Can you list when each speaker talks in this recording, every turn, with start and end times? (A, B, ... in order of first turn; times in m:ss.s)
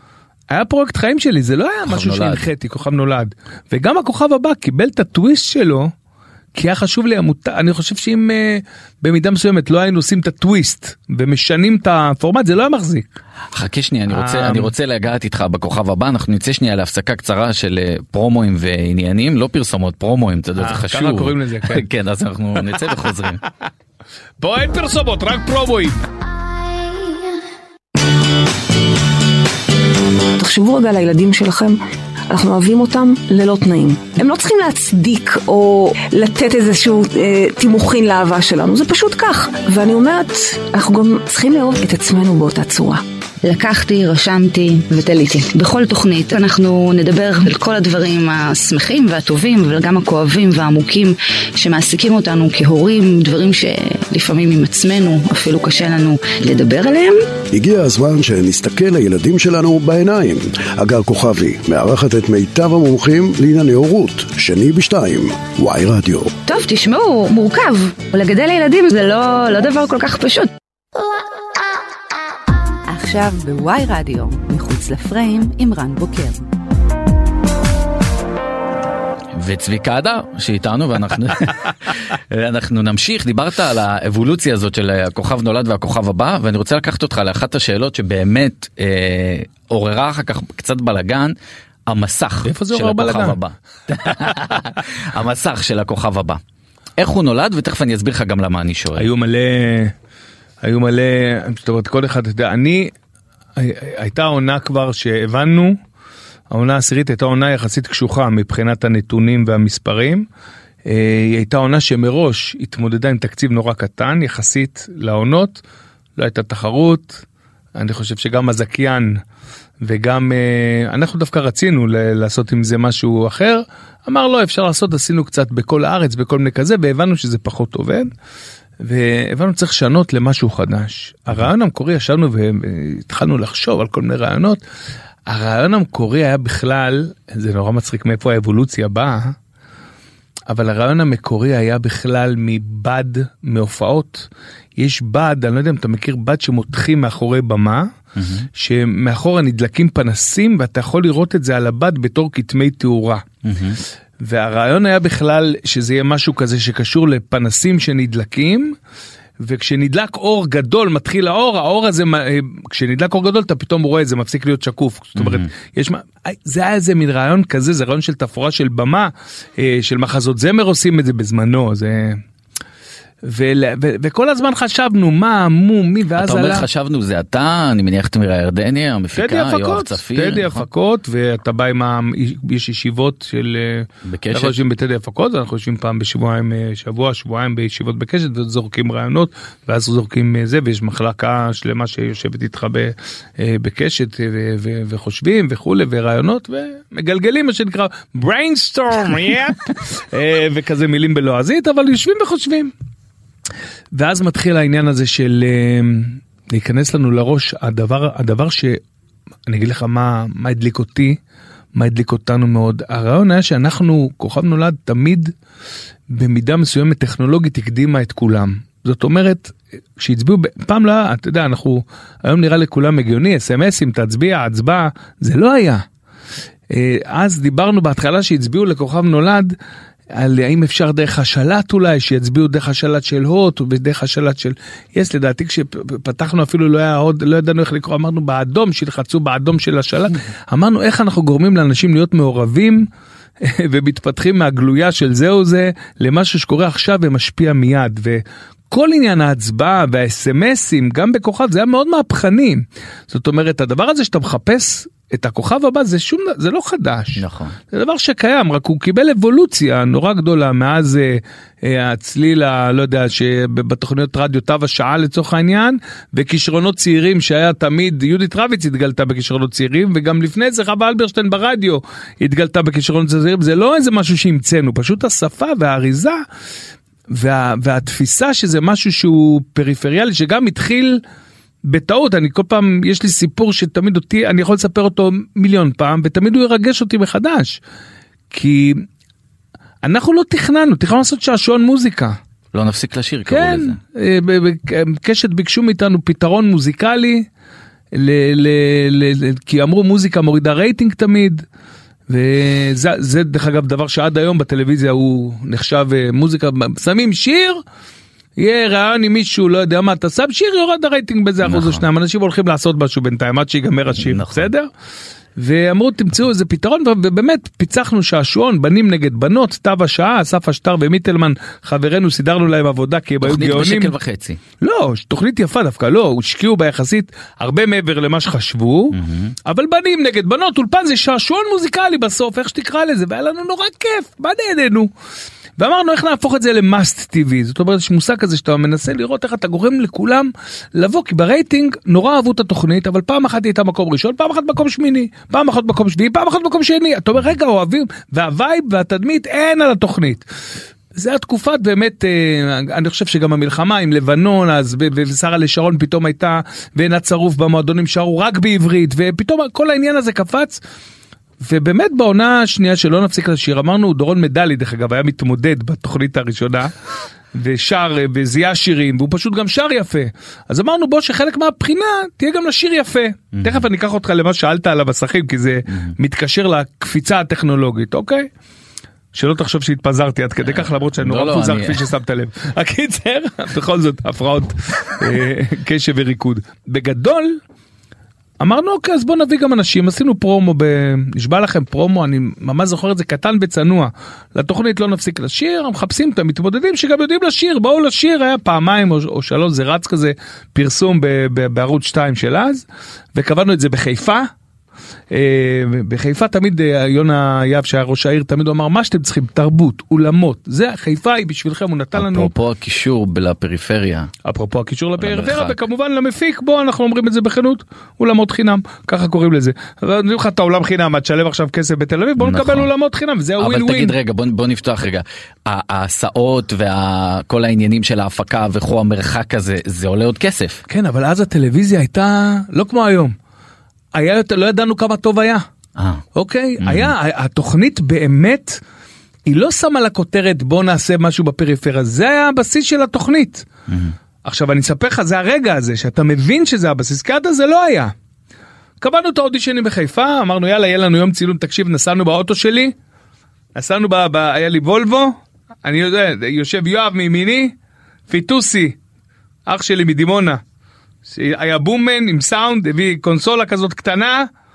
0:00.5-0:05.9 A
0:01.8-0:02.5 B
0:06.5-0:13.1 A
0:13.5-0:23.4 B
0:14.1-0:14.7 A
0:20.6-0:21.8 A
0:24.4-0:26.0 A
0:30.4-0:43.0 C
0:43.4-0:57.3 D
0:57.5-1:06.3 E
1:06.4-1:10.5 D
1:12.9-1:16.4 F
1:19.3-1:31.3 B
1:31.9-1:36.4 B
1:32.4-1:33.4 A
1:37.0-1:39.1 B
1:39.0-1:39.9 A
1:40.6-1:42.9 A
1:43.6-1:45.8 A
1:46.5-1:50.2 A
1:50.8-1:55.6 A
1:56.2-1:57.2 A
1:57.8-1:59.2 A
1:59.8-2:08.1 A
2:08.8-2:14.6 A
2:15.3-2:19.3 A
2:20.5-2:27.9 A
2:28.2-2:28.5 B
2:28.6-2:33.2 A
2:33.4-2:33.8 B
2:34.2-2:38.8 A
2:39.4-2:52.2 A
2:45.2-2:45.5 B
2:53.2-2:56.6 A
2:56.2-3:00.6 B
2:59.2-3:22.7 A
3:04.0-3:04.6 B
3:23.9-3:28.8 A
3:29.5-3:31.2 A
3:31.8-3:35.3 A
3:36.1-3:45.8 A
3:46.7-3:49.5 A
3:50.1-4:02.9 A
4:03.4-4:36.2 A
4:17.2-4:17.6 B
4:37.1-4:41.0 A
4:41.7-4:47.6 A
4:48.3-4:48.8 A
4:49.8-4:52.2 A
4:52.5-4:53.8 B
4:53.3-4:57.3 A
4:57.9-5:01.4 A
5:02.1-5:07.6 A
5:08.4-5:14.7 A
5:11.4-5:11.8 B
5:14.0-5:14.5 B
5:15.4-5:23.9 A
5:23.2-5:24.4 B
5:24.6-5:34.9 A
5:28.9-5:29.3 B
5:35.6-5:50.2 A
5:50.9-6:00.6 A
6:01.4-6:06.7 A
6:07.3-6:18.3 A
6:13.4-6:13.6 B
6:19.1-6:27.4 A
6:20.4-6:21.8 B
6:28.4-6:42.6 A
6:43.2-6:44.3 A
6:45.1-6:52.3 A
6:51.9-6:54.1 B
6:54.2-7:04.0 A
6:55.0-6:55.6 B
7:02.2-7:02.7 B
7:03.4-7:10.6 B
7:10.7-7:13.1 A
7:13.9-7:15.4 A
7:15.8-7:16.0 B
7:16.1-7:18.6 A
7:16.6-7:16.9 B
7:19.3-7:23.5 A
7:23.7-7:23.9 B
7:24.2-7:27.9 A
7:28.8-7:32.7 A
7:33.5-7:37.5 A
7:38.1-7:38.8 A
7:39.5-7:40.4 A
7:41.0-7:44.3 A